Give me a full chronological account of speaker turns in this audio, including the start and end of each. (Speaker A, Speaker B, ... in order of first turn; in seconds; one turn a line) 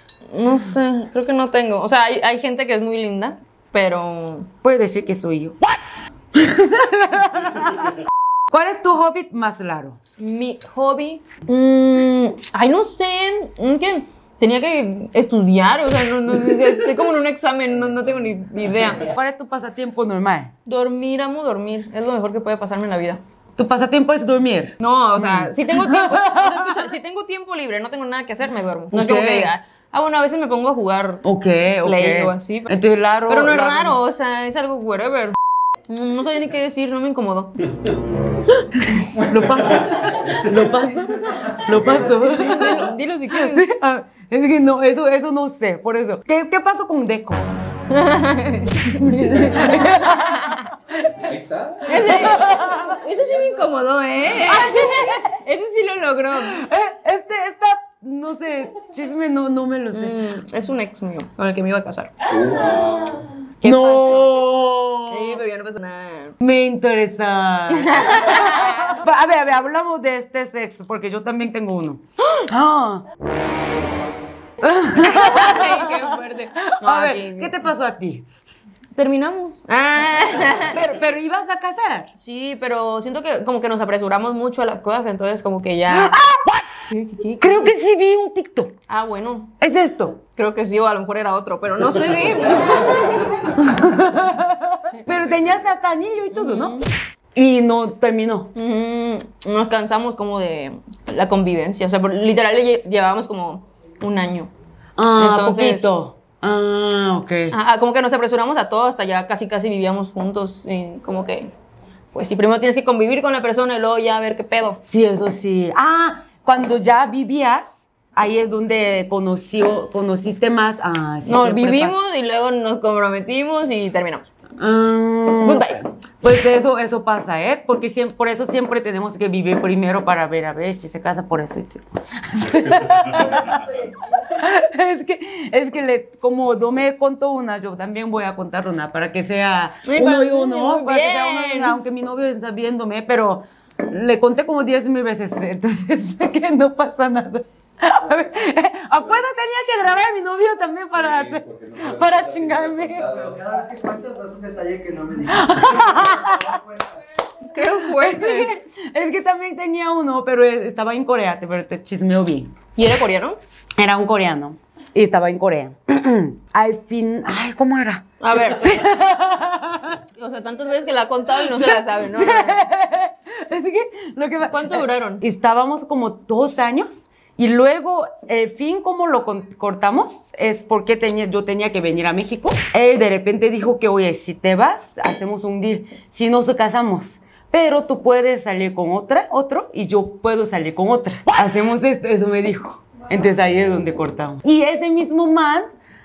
Speaker A: 0.3-4.5
Speaker B: 4.6-5.6
Speaker B: 6.3-7.9
Speaker B: 8.5-10.0
Speaker A: 10.2-19.1
Speaker B: 18.9-20.5
Speaker A: 20.7-23.2
Speaker B: 23.6-26.9
Speaker A: 24.8-31.2
Speaker B: 28.9-29.5
Speaker B: 31.2-34.0
Speaker A: 31.8-32.8
Speaker A: 33.3-35.4
Speaker A: 35.9-37.6
Speaker B: 38.6-47.7
Speaker A: 42.1-43.7
Speaker A: 47.9-50.6
Speaker B: 48.9-51.2
Speaker C: 51.2-52.1
Speaker A: 51.8-56.6
Speaker B: 51.9-53.0
Speaker B: 54.4-55.3
Speaker B: 56.4-60.1
Speaker A: 59.9-62.2
Speaker C: 62.3-63.3
Speaker A: 63.6-64.4
Speaker B: 63.6-65.4
Speaker A: 65.1-66.4
Speaker B: 66.4-73.0
Speaker A: 67.7-69.0
Speaker B: 74.6-78.2
Speaker A: 74.9-77.5
Speaker A: 79.0-80.8
Speaker B: 80.7-82.1
Speaker A: 82.2-86.2
Speaker B: 85.9-86.6
Speaker A: 86.9-87.7
Speaker B: 87.4-88.7
Speaker A: 88.9-89.5
Speaker B: 89.6-90.2
Speaker A: 90.3-93.5
Speaker B: 92.7-96.8
Speaker A: 96.3-96.9
Speaker B: 97.3-98.5
Speaker A: 98.5-104.5
Speaker B: 105.0-107.5
Speaker A: 105.2-105.9
Speaker A: 107.5-111.5
Speaker A: 112.1-114.8
Speaker B: 114.8-122.0
Speaker A: 121.2-124.3
Speaker B: 124.6-153.1
Speaker A: 125.4-125.8
Speaker A: 139.8-141.8
Speaker C: 150.9-153.4
Speaker D: 153.0-157.0
Speaker B: 155.3-156.6
Speaker A: 157.5-158.5
Speaker B: 157.6-162.5
Speaker A: 162.8-163.4
Speaker B: 163.8-170.0
Speaker A: 168.2-168.9
Speaker A: 170.2-172.6
Speaker B: 171.4-195.7
Speaker A: 174.5-175.2